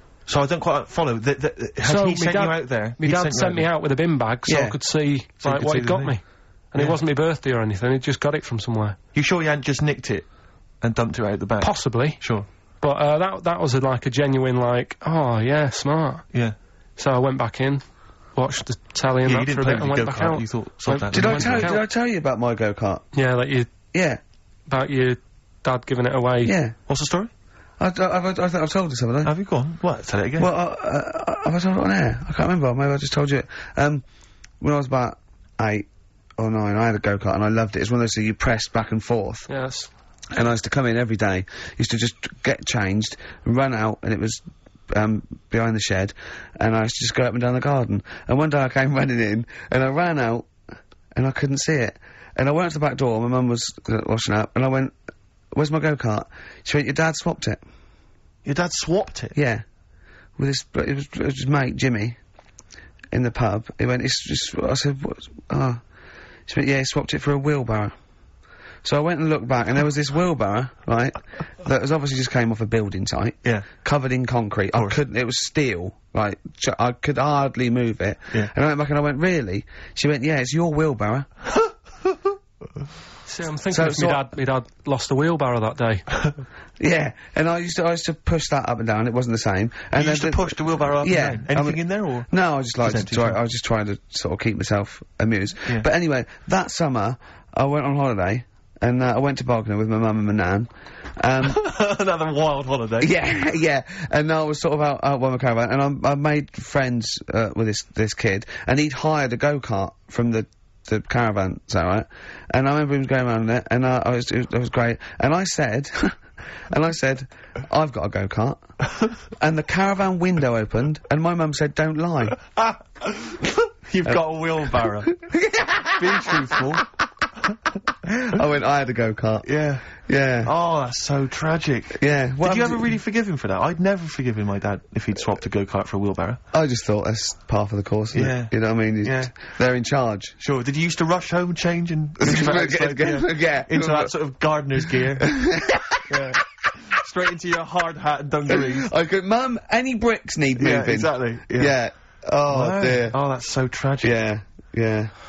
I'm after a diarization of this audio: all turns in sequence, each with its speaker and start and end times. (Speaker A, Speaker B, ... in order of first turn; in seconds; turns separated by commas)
Speaker A: 0.3-3.7, Speaker B: 1.8-9.0, Speaker C: 4.5-4.8, Speaker A: 5.4-6.2, Speaker A: 9.2-10.3, Speaker A: 10.8-12.5, Speaker B: 11.6-12.2, Speaker B: 12.8-16.3, Speaker B: 17.0-17.8, Speaker B: 18.4-21.8, Speaker A: 19.2-21.7, Speaker C: 21.1-23.1, Speaker B: 23.1-23.7, Speaker C: 23.9-24.2, Speaker B: 24.7-26.5, Speaker C: 26.4-26.8, Speaker A: 26.9-27.3, Speaker C: 27.8-29.3, Speaker A: 29.2-30.5, Speaker C: 30.4-34.0, Speaker C: 34.6-39.5, Speaker B: 39.5-39.9, Speaker C: 40.3-50.5, Speaker C: 51.1-55.0, Speaker C: 55.5-57.6, Speaker A: 58.5-59.4, Speaker C: 59.4-59.6, Speaker C: 60.4-62.2, Speaker C: 63.1-65.8, Speaker C: 66.5-68.0, Speaker C: 68.8-81.3, Speaker B: 83.3-86.1, Speaker C: 83.7-84.3, Speaker C: 86.8-101.6, Speaker A: 90.0-92.3, Speaker A: 92.8-93.4, Speaker A: 101.5-103.1, Speaker C: 103.0-116.2, Speaker C: 116.7-118.6, Speaker C: 119.4-122.4, Speaker A: 122.6-125.2, Speaker C: 125.3-126.8, Speaker A: 126.0-126.9, Speaker C: 128.1-129.5, Speaker A: 129.4-129.9, Speaker C: 130.0-130.5, Speaker A: 130.4-136.4, Speaker C: 132.0-132.8, Speaker C: 136.5-140.3, Speaker A: 138.1-139.4, Speaker A: 140.4-145.3, Speaker C: 142.2-144.2, Speaker C: 145.2-146.0, Speaker A: 146.1-148.9, Speaker C: 148.5-153.2, Speaker A: 150.6-151.8, Speaker A: 152.5-154.1, Speaker C: 154.0-155.1